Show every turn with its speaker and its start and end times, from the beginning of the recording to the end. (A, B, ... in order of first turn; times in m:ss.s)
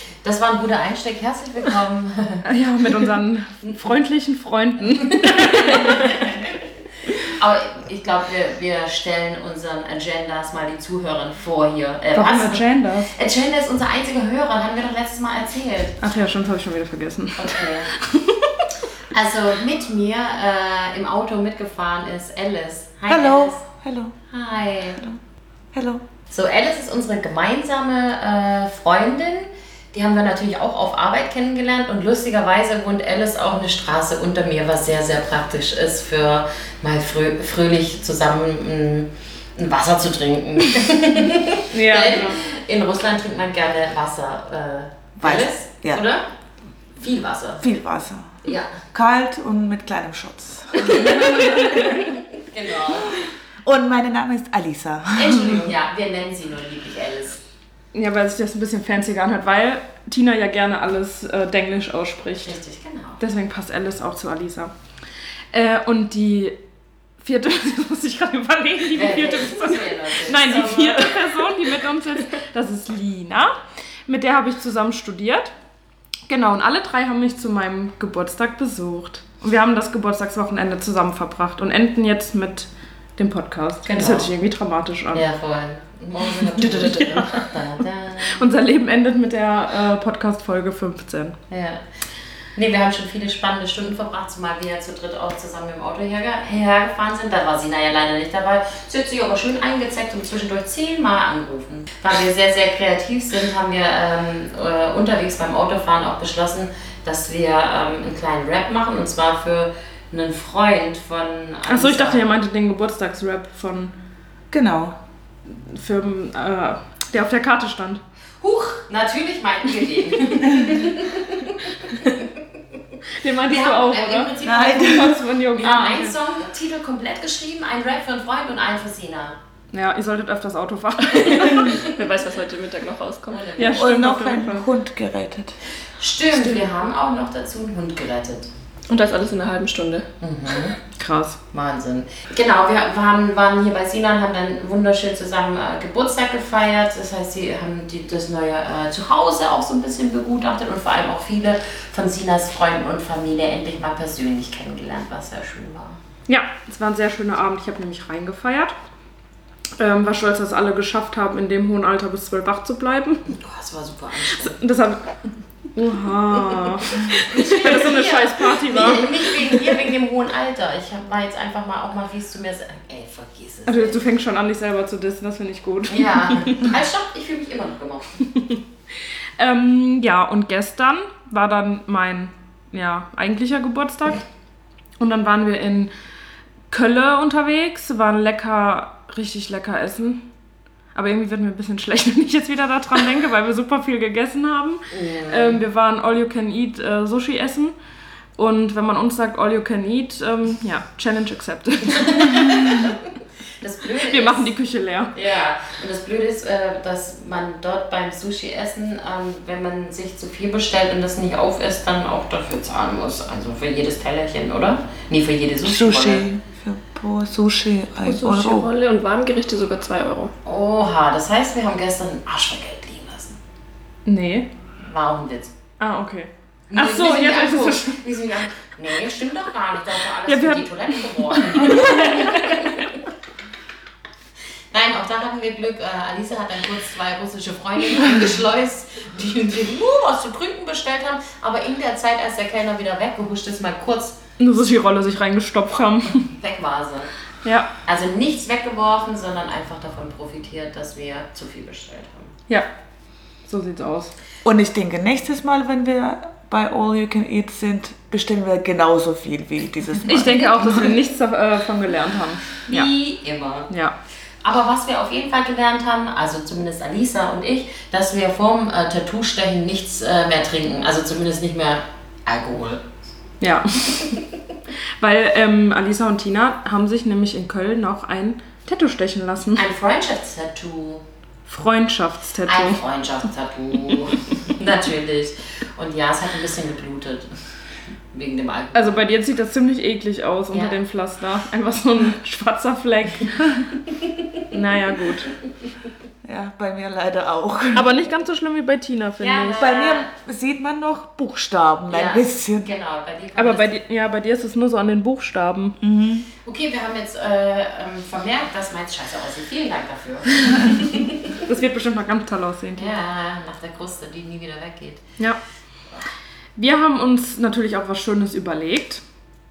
0:00.2-0:02.4 A
0:02.4-0:06.3 B
0:05.0-0:06.5 A
0:07.1-0:16.0 A
0:12.1-0:13.1 B
0:16.0-0:18.7 B
0:17.4-0:17.9 A
0:19.1-0:23.6 A
0:23.1-0:24.2 C
0:24.3-0:25.0 A
0:25.7-0:26.0 C
0:26.3-0:46.3 A
0:41.7-0:42.4 B
0:45.2-0:46.0 C
0:47.0-0:47.6 A
0:47.6-0:48.4 C
0:48.4-0:48.8 A
0:48.9-0:52.1 C
0:51.0-0:53.2 A
0:53.6-0:55.7 C
0:55.2-0:57.4 A
0:57.9-1:02.6 B
1:02.4-1:03.2 A
1:03.2-1:04.7 B
1:05.5-1:06.6 B
1:07.2-1:13.5 B
1:08.9-1:11.3 A
1:14.1-1:15.5 B
1:16.3-1:25.3 B
1:23.8-1:24.3 A
1:25.1-1:28.5 A
1:26.2-1:27.5 B
1:28.2-1:31.4 B
1:31.5-1:31.8 A
1:32.6-1:52.2 A
1:51.7-1:53.9 B
1:54.5-1:55.0 C
1:55.5-1:58.0 B
1:58.4-2:02.4 A
2:03.1-2:06.2 B
2:03.4-2:09.4 A
2:04.4-2:05.2 C
2:09.7-2:11.8 B
2:11.4-2:11.8 A
2:11.5-2:13.5 D
2:13.3-2:13.9 A
2:13.6-2:14.7 B
2:13.7-2:15.6 C
2:15.9-2:18.5 A
2:18.9-2:20.1 D
2:20.2-2:20.8 A
2:21.0-2:21.4 B
2:21.5-2:36.0 A
2:36.3-2:38.8 B
2:39.8-2:43.3 B
2:43.3-2:44.6 A
2:44.3-2:45.1 B
2:45.8-2:49.7 B
2:46.6-2:54.0 A
2:53.7-2:56.7 B
2:55.9-2:58.2 A
2:59.4-3:04.2 B
3:05.0-3:05.9 B
3:06.7-3:10.3 B
3:10.9-3:17.8 B
3:14.9-3:15.6 A
3:18.4-3:22.9 B
3:21.9-3:23.0 A
3:23.6-3:24.5 A
3:24.1-3:25.1 B
3:25.1-3:36.3 A
3:35.6-3:38.7 C
3:38.0-3:40.3 D
3:40.4-3:43.4 A
3:44.1-3:44.5 B
3:44.8-3:45.5 A
3:45.8-3:48.0 B
3:46.7-3:53.0 A
3:50.2-3:52.8 B
3:54.7-4:04.2 A
4:04.4-4:06.3 B
4:06.2-4:07.1 A
4:07.4-4:07.7 B
4:07.8-4:12.4 A
4:13.4-4:14.1 B
4:14.4-4:20.9 C
4:20.1-4:22.9 B
4:22.7-4:23.7 A
4:23.7-4:24.0 B
4:24.4-4:32.8 A
4:33.4-4:34.2 B
4:35.0-4:39.6 B
4:39.6-4:41.0 A
4:41.5-4:42.8 B
4:42.5-4:47.3 A
4:48.1-4:49.0 A
4:48.7-4:53.7 B
4:50.5-4:50.8 A
4:54.5-4:55.3 B
4:56.2-4:58.0 C
4:57.7-4:59.6 B
4:59.2-5:00.1 A
4:59.6-5:02.7 C
5:01.9-5:03.7 A
5:03.4-5:05.8 B
5:05.8-5:06.3 C
5:06.4-5:11.4 A
5:11.4-5:13.0 B
5:12.8-5:15.0 A
5:16.6-5:19.0 B